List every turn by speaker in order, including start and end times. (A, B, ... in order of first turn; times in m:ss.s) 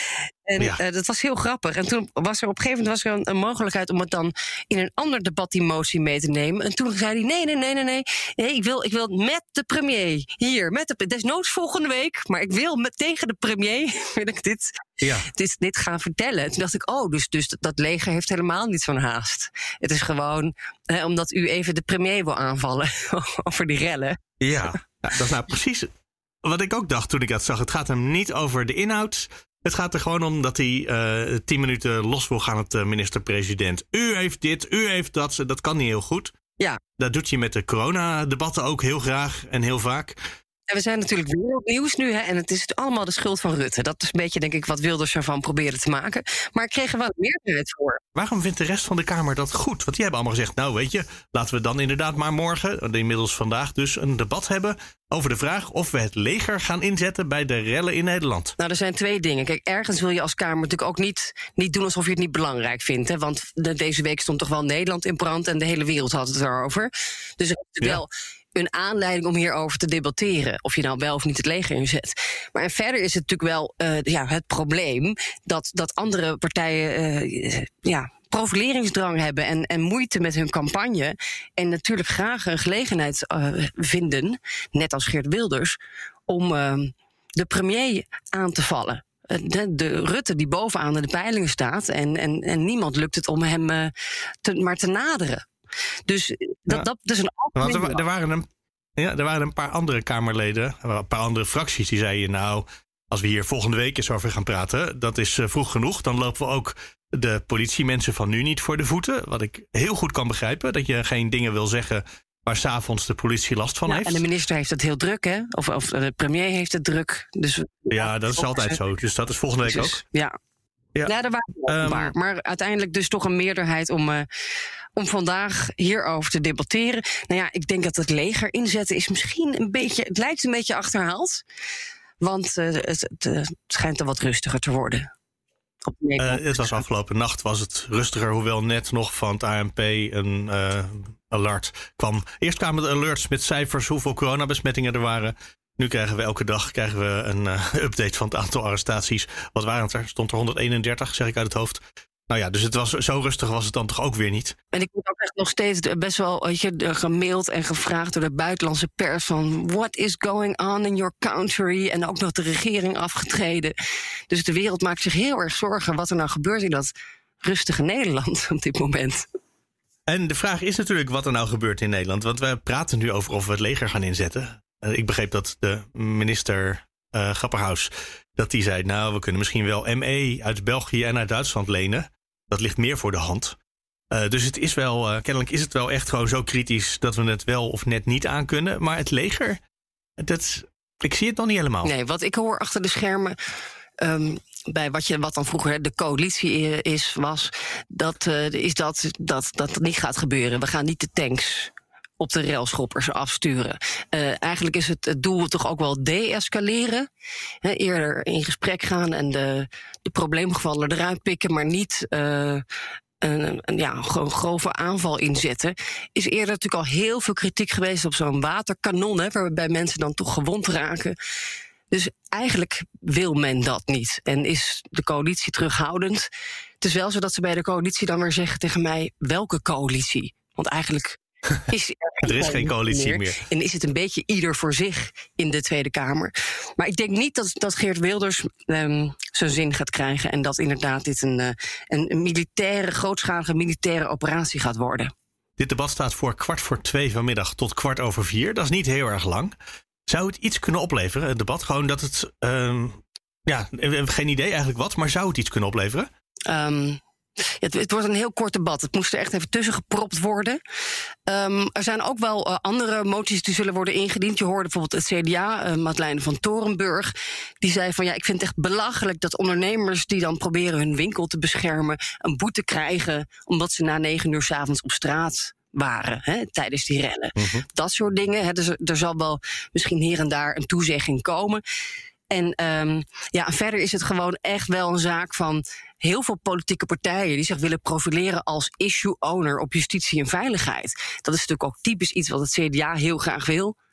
0:00.4-0:24.2 A
0:15.0-0:15.3 B
0:24.4-0:25.9 B
0:26.4-0:36.4 B
0:37.0-0:40.2 B
0:40.7-0:48.0 A
0:48.1-0:58.5 B
0:58.6-1:33.9 A
1:34.4-1:35.5 A
1:36.1-1:38.0 A
1:37.6-1:38.4 B
1:39.0-1:54.2 B
1:53.9-1:58.8 A
1:57.9-2:00.0 B
1:59.6-2:00.4 A
2:01.0-2:04.2 A
2:01.7-2:02.1 B
2:05.0-2:11.4 A
2:12.2-2:15.1 A
2:15.8-2:16.8 A
2:16.2-2:34.6 B
2:34.7-2:43.7 A
2:44.3-2:46.9 A
2:47.4-2:49.2 A
2:50.1-3:03.6 B
3:04.1-3:09.6 B
3:10.2-3:11.9 B
3:11.8-3:13.4 A
3:14.0-3:27.1 A
3:27.6-3:32.6 A
3:33.2-3:41.1 A
3:41.9-3:46.3 A
3:46.8-3:51.2 A
3:51.7-4:05.1 A
3:52.2-3:53.4 B
4:05.6-4:09.5 B
4:10.1-4:16.1 B
4:16.5-4:17.0 A
4:17.6-4:20.6 A
4:21.3-4:41.6 A
4:37.4-4:37.6 B
4:42.3-4:53.8 A